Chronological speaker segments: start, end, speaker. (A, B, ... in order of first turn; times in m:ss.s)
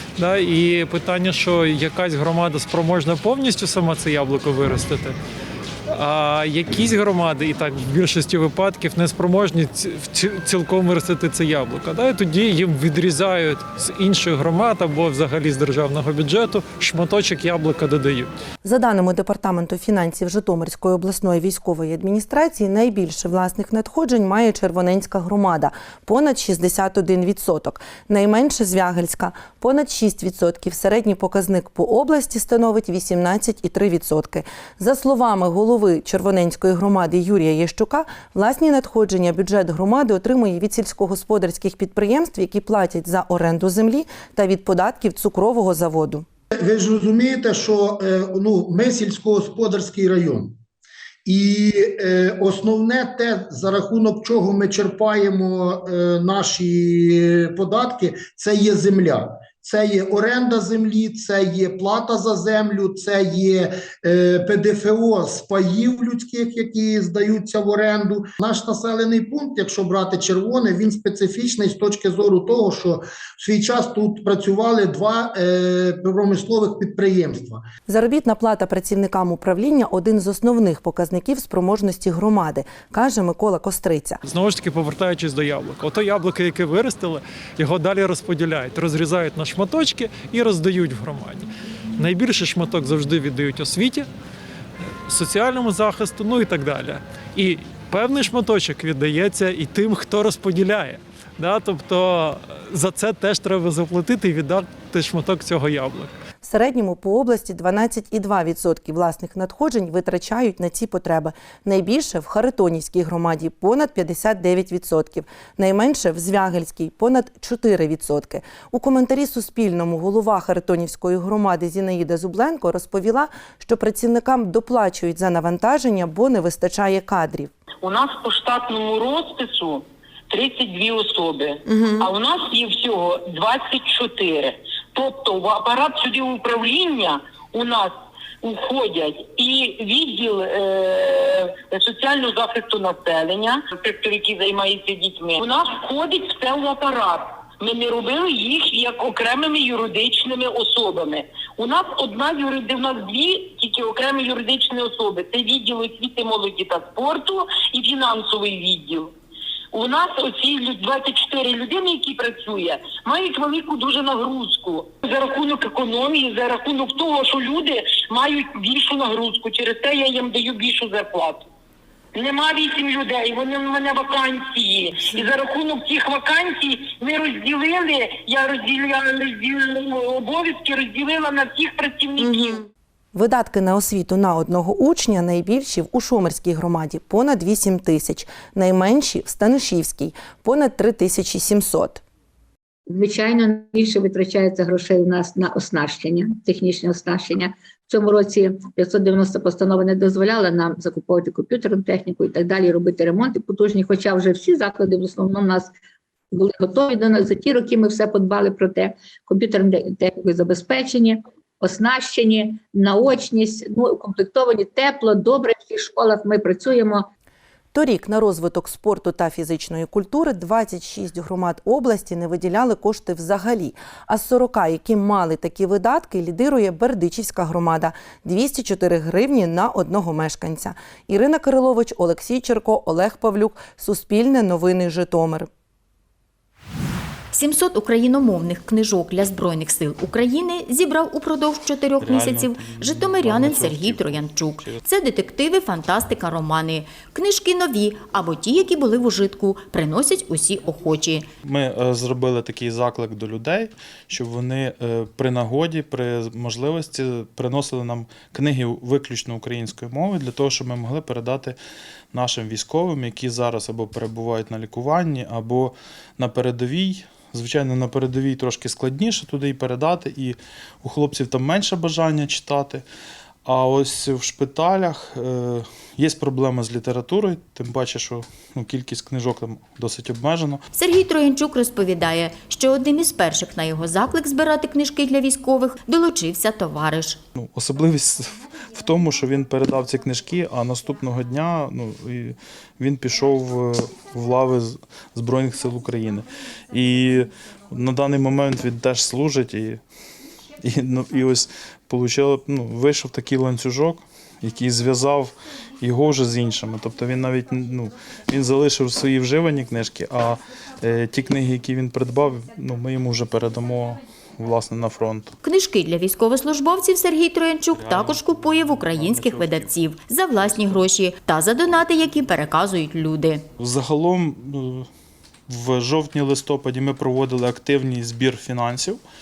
0:00.2-0:05.2 A
0:05.9-0:18.3 A
0:18.6-0:46.2 B
0:46.6-0:50.5 C
0:51.2-1:17.6 C
1:17.9-1:24.2 B
1:24.3-1:34.1 A
1:35.0-1:46.1 A
1:46.4-2:07.5 B
2:07.8-2:39.1 D
2:39.7-2:51.4 D
2:52.1-3:02.6 D
3:03.1-3:12.0 B
3:12.9-3:25.7 E
3:26.3-3:37.0 E
3:37.7-3:55.5 B
3:57.3-4:11.2 F
4:02.0-4:04.8 G
4:11.4-4:21.6 G
4:22.1-4:32.8 G
4:33.4-4:40.6 G
4:40.7-4:47.2 F
4:47.4-4:59.8 G
5:00.6-5:15.3 G
5:15.4-5:23.4 F
5:17.7-5:19.7 G
5:20.5-5:20.8 G
5:23.6-5:24.9 G
5:25.5-5:29.0 G